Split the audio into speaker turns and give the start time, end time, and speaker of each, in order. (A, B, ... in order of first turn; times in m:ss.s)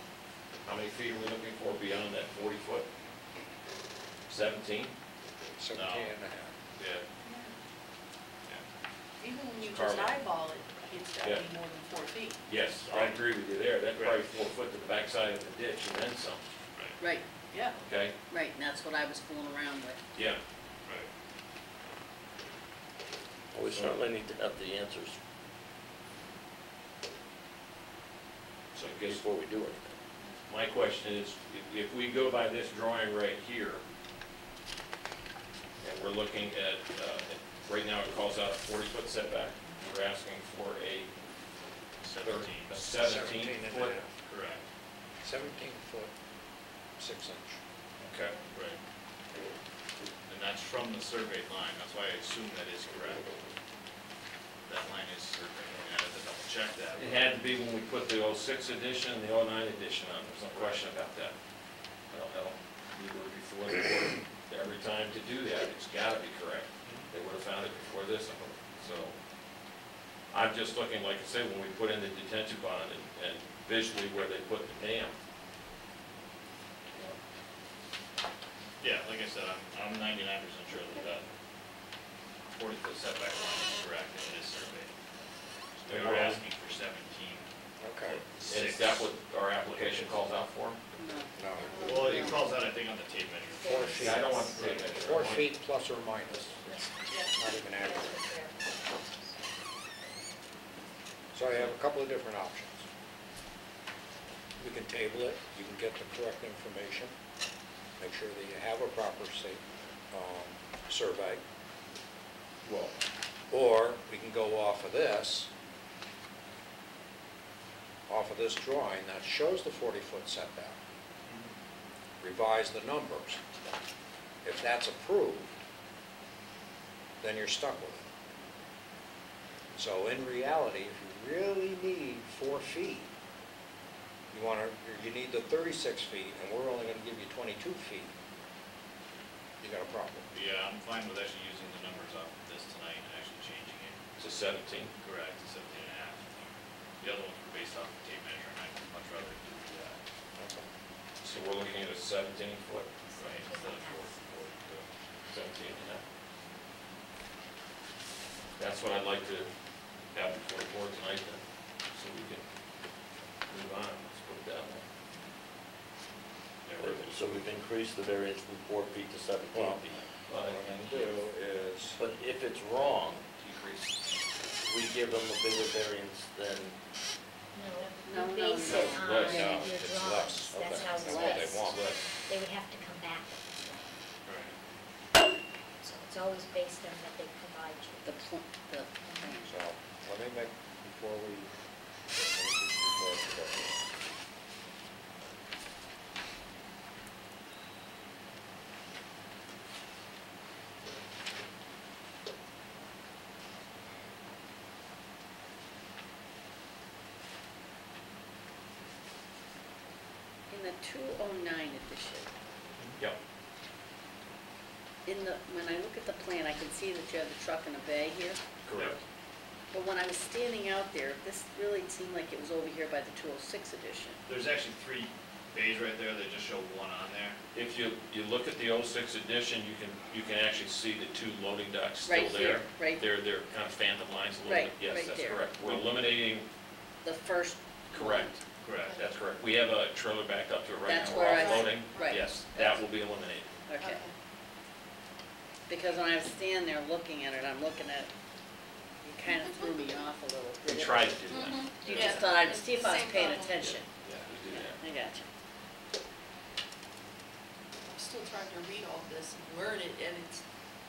0:00.6-0:02.9 A
0:04.3-0:04.9 A
0:05.6-0:06.5 B
0:05.7-0:06.1 C
0:06.8-0:07.0 A
0:07.2-0:07.5 D
0:09.2-0:12.4 D
0:09.6-0:10.2 A
0:11.2-0:11.5 A
0:12.5-0:16.4 A
0:12.9-0:13.2 C
0:13.9-0:14.2 C
0:17.0-0:17.2 E
0:17.5-0:17.8 D
0:17.8-0:18.2 A
0:18.3-0:20.0 E
0:20.2-0:20.4 A
0:23.5-0:25.2 F
0:23.7-0:24.0 A
0:28.7-0:29.2 A
0:29.0-0:29.9 F
0:30.5-0:33.8 A
0:35.8-0:41.1 A
0:42.0-0:42.9 C
0:42.2-0:44.0 A
0:43.0-0:44.1 B
0:44.2-0:44.6 C
0:45.2-0:46.1 B
0:47.0-0:47.6 B
0:48.0-0:48.4 A
0:48.5-0:48.8 C
0:50.3-0:53.2 C
0:54.7-0:57.3 C
0:57.0-1:01.4 A
1:00.5-1:00.8 C
1:02.1-1:09.2 A
1:06.8-1:07.1 C
1:10.3-1:15.2 A
1:16.9-1:17.2 A
1:18.8-1:21.3 C
1:22.5-1:24.9 C
1:25.8-1:27.5 C
1:25.9-1:26.4 A
1:27.8-1:28.2 B
1:28.1-1:29.1 C
1:28.4-1:30.8 A
1:31.0-1:32.5 E
1:31.4-1:32.3 B
1:31.8-1:34.1 C
1:33.6-1:38.2 B
1:34.0-1:35.5 A
1:37.1-1:39.2 D
1:41.3-1:42.8 B
1:44.6-1:47.1 B
1:48.0-1:51.4 B
1:52.6-1:53.0 A
1:53.5-1:55.5 B
1:58.1-2:00.8 B
2:02.2-2:03.4 B
2:04.4-2:05.5 B
2:07.2-2:08.1 B
2:09.7-2:13.1 B
2:14.3-2:18.1 B
2:19.6-2:20.3 B
2:20.3-2:24.0 C
2:24.2-2:24.9 A
2:25.0-2:30.0 C
2:30.4-2:30.6 B
2:31.2-2:32.9 A
2:33.1-2:34.2 G
2:33.2-2:34.9 C
2:35.3-2:36.0 A
2:38.6-2:39.5 A
2:40.1-2:42.4 A
2:43.5-2:44.9 A
2:46.7-2:47.3 A
2:46.8-2:50.0 F
2:49.5-2:52.0 B
2:50.3-2:50.9 A
2:52.0-2:53.2 F
2:53.4-2:54.0 A
2:54.6-2:56.7 F
2:57.5-3:03.9 G
2:58.0-2:59.6 E
2:58.6-2:59.6 A
2:59.3-3:01.8 B
3:00.5-3:02.1 A
3:04.3-3:04.5 C
3:05.8-3:08.3 G
3:08.0-3:09.5 E
3:09.4-3:11.5 B
3:12.1-3:13.8 B
3:30.5-3:32.3 E
3:35.1-3:38.4 E
3:38.6-3:39.0 A
3:38.7-3:39.0 C
3:39.7-3:44.2 E
3:44.3-3:47.4 C
3:47.5-3:56.5 A
3:52.0-3:53.0 E
3:54.4-3:55.5 E
3:55.6-3:55.9 C
3:57.0-3:58.3 E
3:57.9-3:58.4 A
3:58.6-3:59.0 C
3:58.9-4:03.5 A
4:00.9-4:02.8 E
4:01.2-4:02.2 D
4:02.1-4:02.4 C
4:03.7-4:04.0 E
4:03.8-4:04.1 D
4:05.7-4:08.1 E
4:09.0-4:11.2 E
4:10.7-4:12.4 A
4:11.3-4:13.8 D
4:11.9-4:13.9 E
4:13.6-4:14.8 A
4:14.5-4:15.3 E
4:17.9-4:20.4 D